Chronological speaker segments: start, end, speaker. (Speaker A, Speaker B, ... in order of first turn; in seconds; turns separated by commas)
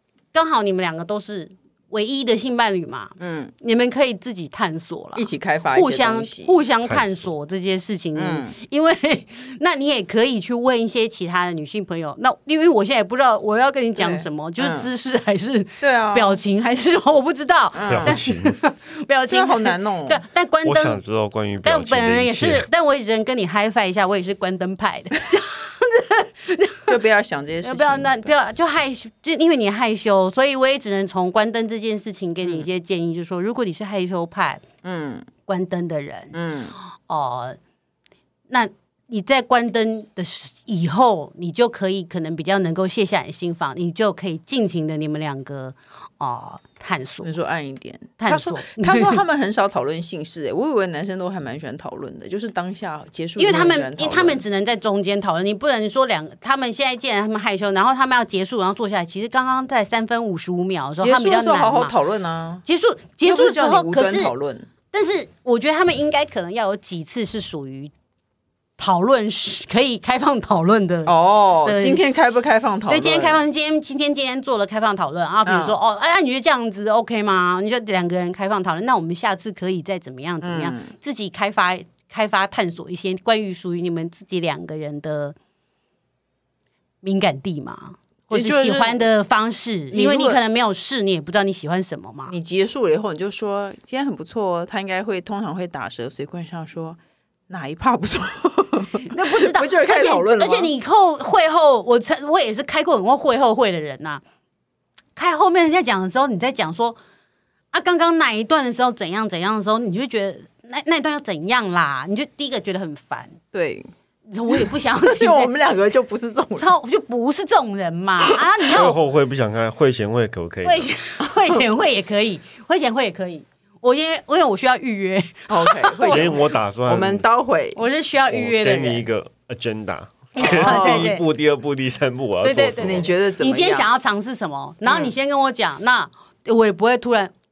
Speaker A: 0.3-21.0, Speaker B: 3.2-3.5, Speaker B: 5.2-6.5, Speaker C: 6.8-7.3, Speaker B: 8.2-8.5, Speaker B: 14.0-14.9, Speaker B: 15.8-16.4, Speaker B: 17.7-18.2, Speaker C: 17.9-18.6, Speaker B: 19.3-20.2, Speaker C: 20.6-22.7, Speaker A: 21.6-27.0, Speaker B: 26.9-28.3, Speaker A: 27.6-34.6, Speaker B: 32.4-32.7, Speaker B: 34.8-35.3, Speaker A: 35.5-36.4, Speaker B: 36.3-36.7, Speaker A: 37.1-37.6, Speaker A: 38.5-47.3, Speaker B: 47.2-54.4, Speaker A: 48.2-49.2, Speaker A: 53.4-61.9, Speaker B: 61.0-62.6, Speaker A: 62.7-64.3, Speaker B: 63.2-64.7, Speaker A: 64.9-67.9, Speaker A: 68.8-72.3, Speaker B: 71.1-73.4, Speaker A: 72.9-85.4, Speaker B: 75.5-75.8, Speaker B: 80.4-80.9, Speaker A: 87.0-92.3, Speaker B: 88.3-89.0, Speaker B: 89.9-90.4, Speaker B: 92.3-97.0, Speaker B: 97.5-100.7, Speaker A: 99.0-104.2, Speaker A: 105.2-107.0, Speaker A: 107.7-113.4, Speaker B: 113.5-113.9, Speaker A: 114.3-115.5, Speaker B: 114.5-116.7, Speaker A: 116.5-119.0, Speaker C: 118.7-120.9, Speaker A: 120.6-126.4, Speaker B: 125.5-127.8, Speaker C: 126.0-127.2, Speaker A: 127.8-129.1, Speaker C: 128.3-133.1, Speaker B: 130.4-131.2, Speaker A: 130.4-131.2, Speaker A: 132.4-137.3, Speaker B: 132.8-133.9, Speaker B: 134.9-135.1